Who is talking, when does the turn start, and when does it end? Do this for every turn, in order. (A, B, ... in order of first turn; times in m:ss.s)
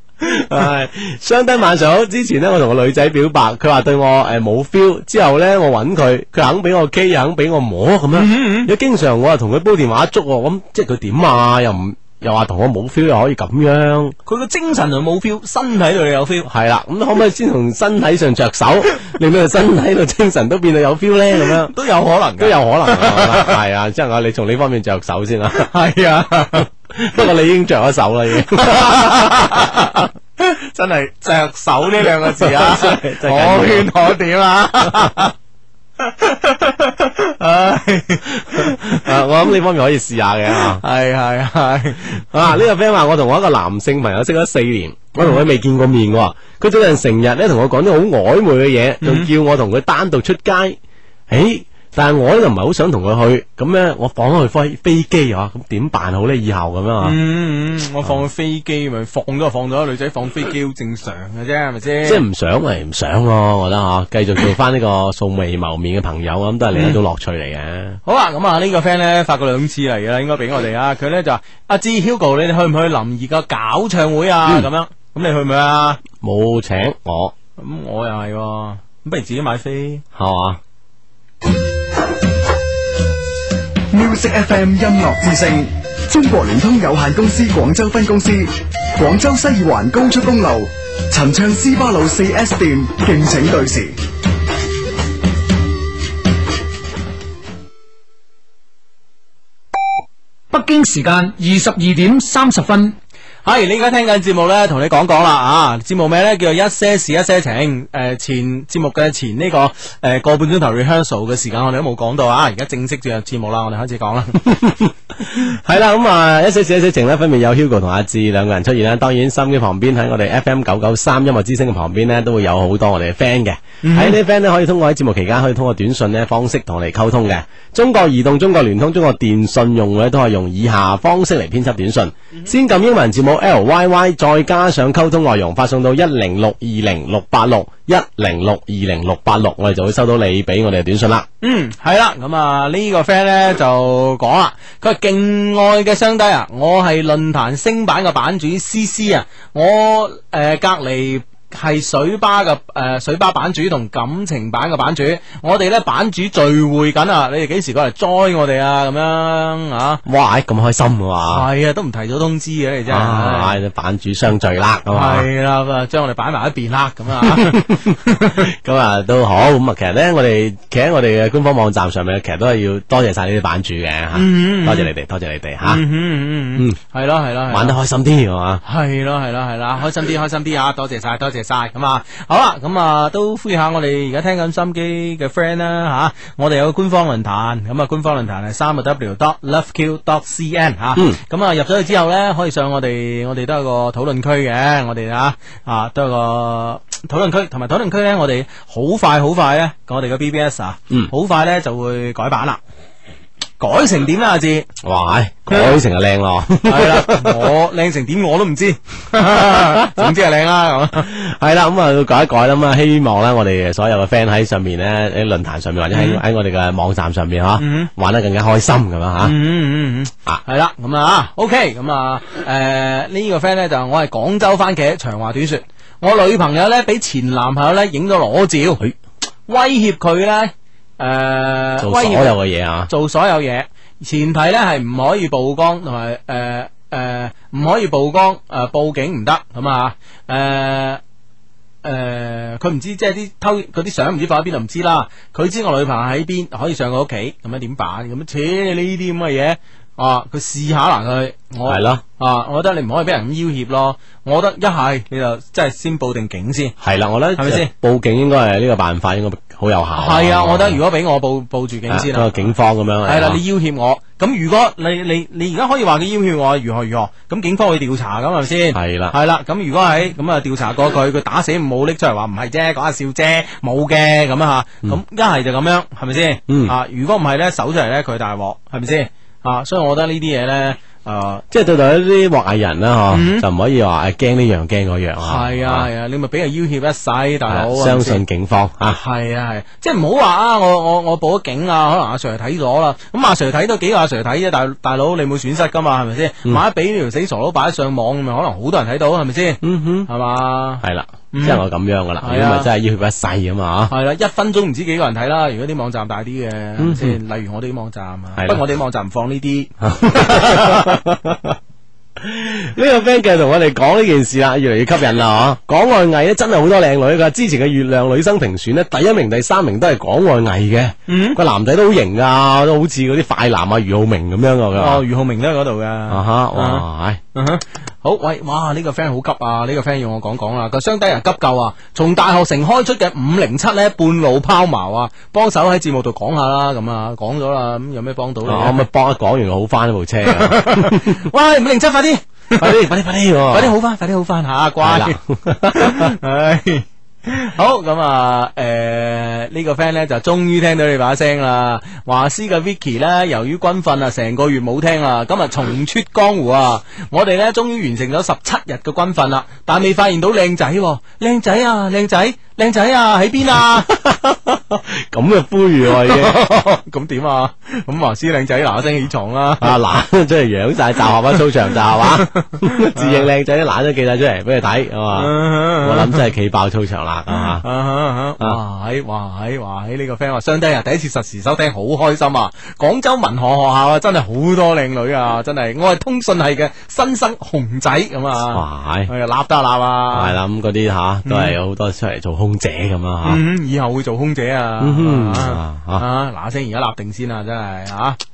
0:00.2-0:14.1 A
0:08.1-0:08.7 B
0:14.2-0:16.5 B
0:16.4-0:21.7 A
0:21.4-0:23.6 B
0:22.4-0:25.7 A
0:25.6-0:26.7 B
0:26.9-0:29.4 A
0:28.4-0:35.3 B
0:32.4-0:33.9 A
0:36.0-0:39.3 B
0:38.5-0:40.8 A
0:40.5-0:42.2 B
0:42.3-0:50.8 A
0:49.0-0:49.3 B
0:51.3-0:57.2 A
0:57.0-1:02.2 B
1:02.0-1:08.0 A
1:06.7-1:07.0 B
1:08.0-1:16.0 B
1:16.2-1:17.3 A
1:17.6-1:20.0 B
1:20.1-1:20.6 A
1:23.9-1:34.0 C
1:40.5-1:43.0 D
1:43.4-1:54.5 B
1:54.5-2:21.2 A
2:03.8-2:04.2 B
2:21.4-2:40.0 B
2:40.0-2:41.5 A
2:41.3-2:43.6 B
2:42.9-2:45.3 A
2:44.9-2:48.4 B
2:47.2-2:55.8 A
2:54.1-2:54.9 B
2:55.6-2:57.8 B
2:57.5-2:58.6 A
2:58.6-3:22.6 B
3:23.6-3:24.7 B
3:24.8-3:27.5 A
3:26.6-3:31.1 B
3:31.0-3:39.4 A
3:35.9-3:36.2 B
3:37.6-3:37.9 B
3:39.2-3:48.8 B
3:49.5-3:52.4 B
3:51.8-3:52.9 A
3:52.9-4:01.0 B
4:01.8-4:16.7 B
4:11.6-4:12.0 A
4:16.8-4:20.8 A
4:17.4-4:17.7 B
4:20.0-4:22.5 B
4:21.9-4:23.4 A
4:23.0-4:41.4 B
4:28.7-4:29.1 A
4:36.5-4:36.7 A
4:41.5-4:45.9 A
4:43.1-4:43.4 B
4:45.2-4:48.2 B
4:47.5-4:49.0 A
4:48.9-5:01.6 B
4:59.6-5:00.1 A
5:00.8-5:03.9 A
5:02.2-5:02.7 B
5:03.9-5:11.0 B
5:06.8-5:07.2 A
5:08.4-5:08.6 A
5:09.8-5:11.5 A
5:12.2-5:25.0 A
5:21.1-5:21.4 B
5:24.7-5:38.8 B
5:26.1-5:27.2 A
5:38.4-5:41.2 A
5:40.2-5:42.7 B
5:42.6-5:43.7 A
5:43.5-5:45.2 B
5:44.8-5:46.1 A
5:45.7-6:03.9 B
6:03.9-6:06.4 A
6:05.9-6:09.8 B
6:09.6-6:17.6 A
6:12.2-6:13.3 B
6:15.1-6:16.2 B
6:17.3-6:30.4 B
6:28.5-6:29.1 A
6:30.1-6:33.4 A
6:31.2-6:31.5 B
6:33.2-6:38.2 B
6:34.8-6:36.0 A